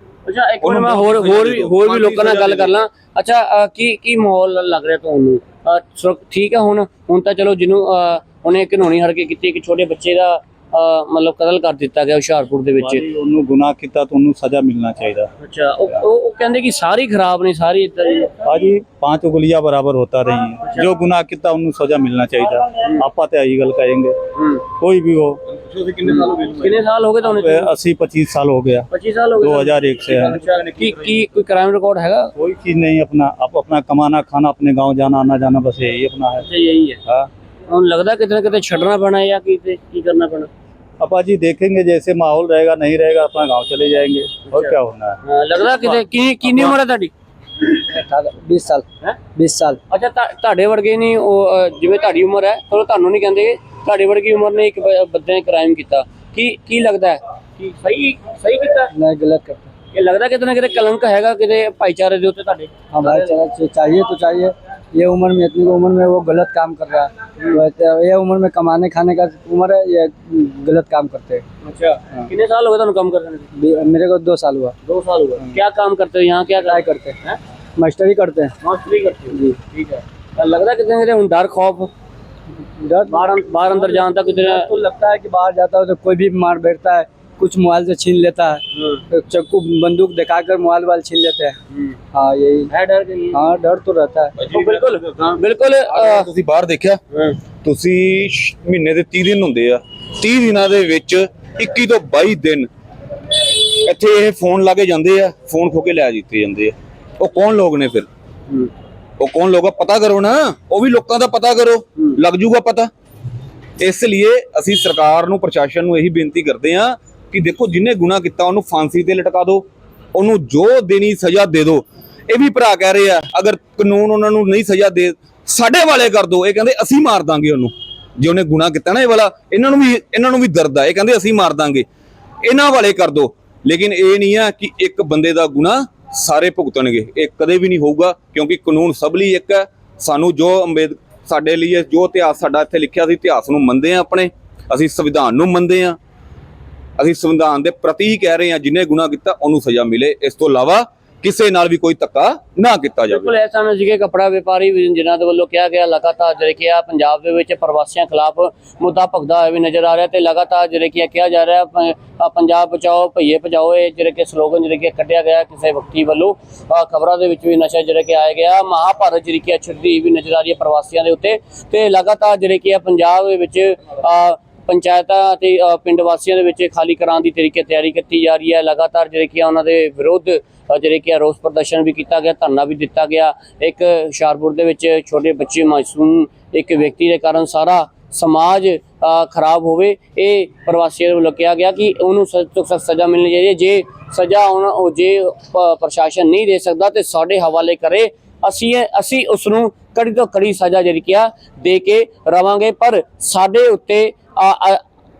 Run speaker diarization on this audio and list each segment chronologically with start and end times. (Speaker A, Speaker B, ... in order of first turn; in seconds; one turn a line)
Speaker A: 0.2-13.1
Speaker B: 0.6-2.7
Speaker C: 12.8-15.3
Speaker A: 15.4-18.5
Speaker C: 18.4-24.2
Speaker A: 24.4-24.6
Speaker C: 24.8-25.4
Speaker B: 25.5-26.8
Speaker A: 26.0-27.7
Speaker C: 27.2-30.4
Speaker A: 28.9-32.3
Speaker B: 30.1-31.2
Speaker C: 32.4-36.5
Speaker A: 36.4-37.0
Speaker A: 37.7-40.5
Speaker C: 41.0-45.2
Speaker A: 44.5-47.1
Speaker D: 47.8-49.8
Speaker A: 49.9-58.9
Speaker D: 58.9-59.7
Speaker A: 59.9-63.4
Speaker D: 62.9-71.4
Speaker A: 67.4-67.6
Speaker A: 71.6-73.5
Speaker D: 73.5-74.8
Speaker A: 74.8-77.4
Speaker D: 76.6-77.2
Speaker D: 77.8-78.5
Speaker A: 78.6-81.9
Speaker D: 82.8-91.5
Speaker A: 83.0-84.7
Speaker A: 88.7-89.0
Speaker D: 92.1-92.7
Speaker A: 92.7-93.6
Speaker D: 93.3-94.3
Speaker B: 94.4-97.0
Speaker A: 94.5-96.3
Speaker B: 97.6-102.7
Speaker B: 103.4-108.1
Speaker B: 109.2-112.9
Speaker B: 113.8-131.8
Speaker B: 132.4-146.0
Speaker B: 147.0-153.3
Speaker A: 153.1-204.8